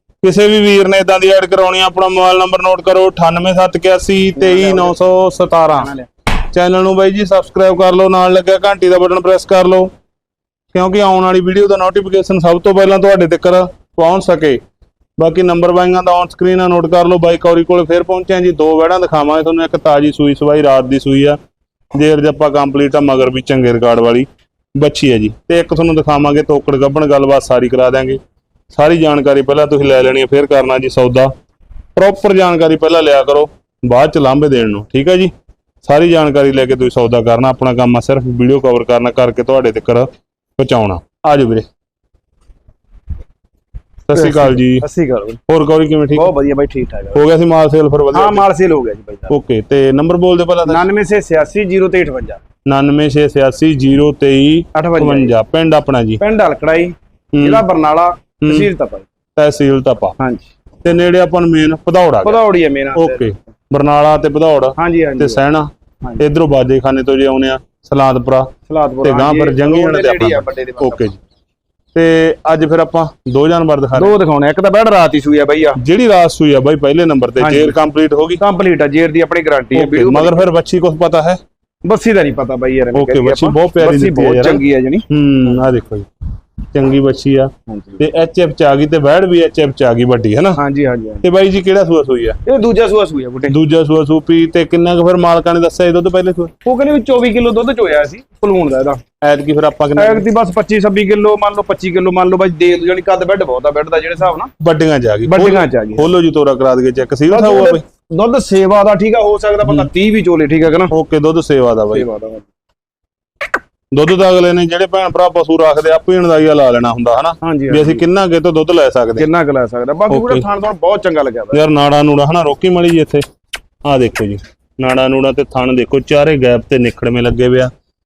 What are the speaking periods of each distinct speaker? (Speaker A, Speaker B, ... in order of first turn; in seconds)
Speaker A: 0.2-5.9, 6.5-9.9, 10.7-14.6, 15.2-21.4, 21.9-28.2, 28.7-31.3, 31.9-35.3, 35.8-41.6, 44.1-44.8, 45.5-46.3, 47.1-48.4, 49.3-50.8, 52.6-56.2, 57.3-57.6, 58.4-58.7, 59.4-60.1, 60.8-62.4, 62.9-68.5, 69.0-71.2, 71.9-74.2, 75.8-78.4, 79.7-81.4, 82.9-86.0, 86.7-90.6, 91.2-92.4, 93.5-96.5, 99.2-100.2, 104.6-107.8, 110.9-112.1, 113.9-119.3, 120.1-120.4, 121.5-123.2, 123.8-127.7
Speaker B: 4.4-5.0, 5.7-6.1, 44.1-45.4, 46.1-47.2, 48.1-49.3, 50.6-52.4, 54.7-55.3, 56.2-59.0, 60.2-60.4, 62.2-63.4, 64.8-65.4, 68.7-71.1, 73.9-75.8, 77.4-77.8, 78.4-80.4, 81.8-85.1, 87.7-88.0, 90.6-91.2, 92.4-93.5, 96.6-99.0, 100.0-104.5, 105.3-106.0, 107.3-110.9, 111.9-112.5, 117.4-118.0, 119.2-121.6